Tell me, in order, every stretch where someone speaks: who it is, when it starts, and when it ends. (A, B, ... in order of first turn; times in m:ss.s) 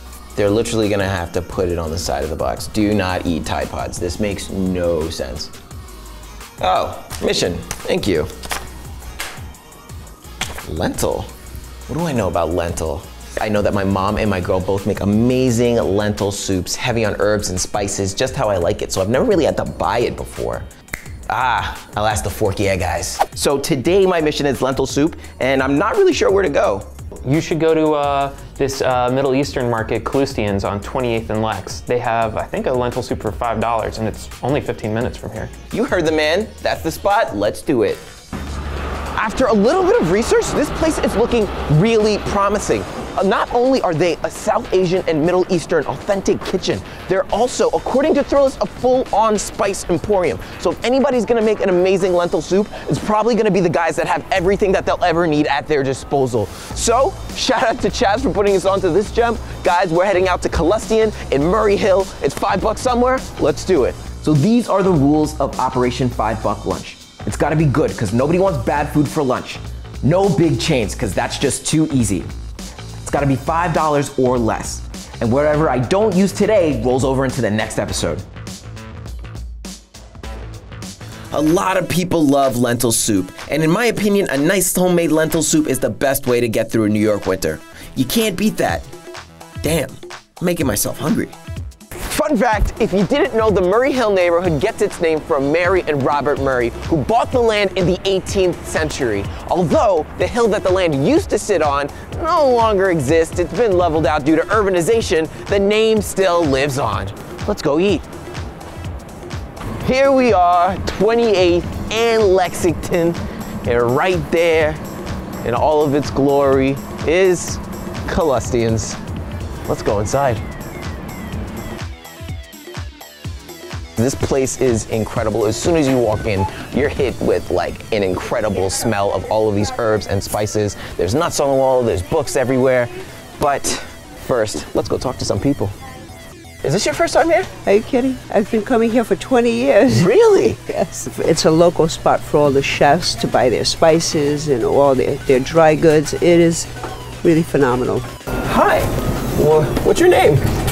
0:00.4-0:05.5 A
0:06.6-0:08.3 A
0:10.6-0:11.3 A
0:11.9-0:20.7 A
0:21.3-0:26.9 A
0:27.2-0:35.5 B
0:35.7-0:38.0 A
0:39.2-1:12.3 A
1:13.0-1:18.2 A
1:21.3-1:28.9 A
1:29.6-1:31.4 A
1:32.0-1:48.0 A
1:49.8-1:54.8 A
1:55.4-1:59.0 A
1:59.7-2:00.4 A
2:04.0-2:15.8 A
2:16.6-2:17.5 A
2:17.6-2:20.1 C
2:19.9-2:20.6 A
2:20.7-2:26.7 C
2:27.2-2:28.1 C
2:28.4-2:30.4 A